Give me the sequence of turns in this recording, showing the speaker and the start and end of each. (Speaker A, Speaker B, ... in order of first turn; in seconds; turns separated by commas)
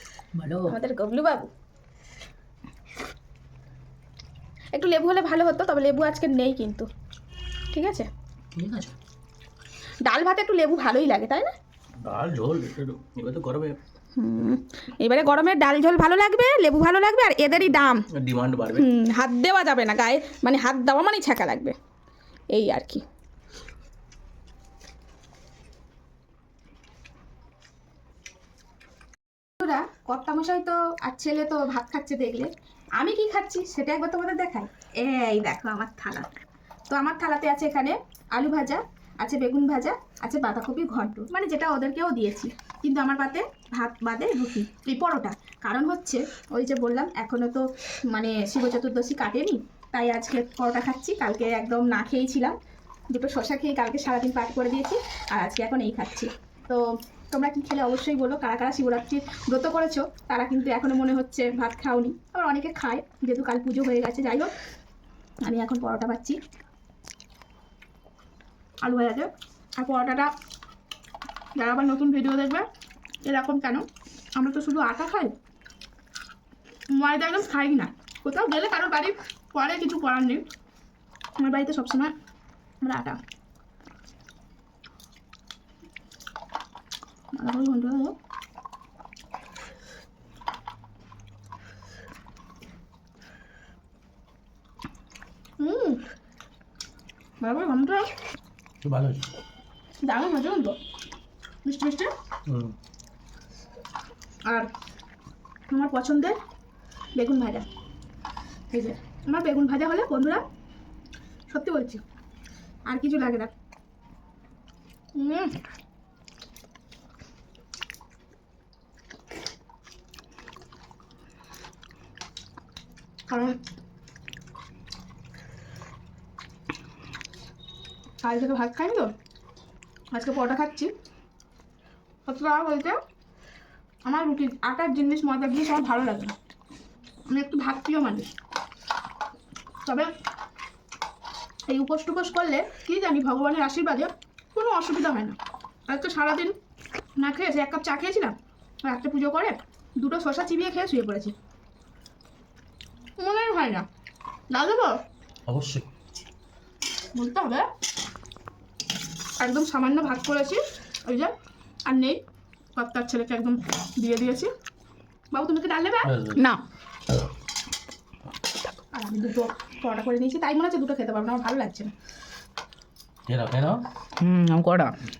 Speaker A: 0.3-0.8, Speaker B: 0.7-1.5, Speaker B: 4.7-6.9, Speaker B: 7.7-8.1, Speaker A: 8.5-8.9, Speaker B: 10.0-11.5, Speaker C: 12.0-13.8, Speaker B: 14.2-18.1, Speaker C: 18.1-18.9, Speaker B: 18.7-21.8, Speaker B: 22.5-23.0, Speaker B: 29.6-36.3, Speaker B: 36.9-52.5, Speaker B: 53.1-64.5, Speaker B: 65.4-66.4, Speaker B: 68.8-70.3, Speaker B: 71.6-72.7, Speaker B: 73.2-73.8, Speaker B: 74.4-75.3, Speaker B: 76.9-80.4, Speaker B: 81.4-82.1, Speaker B: 82.8-83.2, Speaker B: 87.3-88.2, Speaker B: 95.6-96.0, Speaker B: 97.4-98.1, Speaker C: 98.8-99.3, Speaker B: 100.0-100.8, Speaker B: 101.6-102.1, Speaker C: 102.5-102.7, Speaker B: 105.7-106.4, Speaker B: 107.2-107.6, Speaker B: 108.7-110.4, Speaker B: 111.5-112.0, Speaker B: 112.9-113.5, Speaker B: 115.2-115.5, Speaker B: 123.3-123.6, Speaker B: 128.2-129.1, Speaker B: 130.1-130.9, Speaker B: 132.2-133.0, Speaker B: 134.1-136.3, Speaker B: 137.3-138.3, Speaker B: 139.8-140.1, Speaker B: 141.7-145.4, Speaker B: 145.9-146.5, Speaker B: 147.2-151.3, Speaker B: 153.2-153.8, Speaker B: 154.5-155.0, Speaker C: 155.5-155.9, Speaker B: 157.1-157.7, Speaker B: 159.4-161.3, Speaker B: 161.8-162.2, Speaker B: 162.8-164.5, Speaker B: 165.3-166.1, Speaker C: 166.0-166.4, Speaker A: 166.3-166.6, Speaker B: 168.9-171.9, Speaker C: 173.3-173.8, Speaker A: 174.2-175.0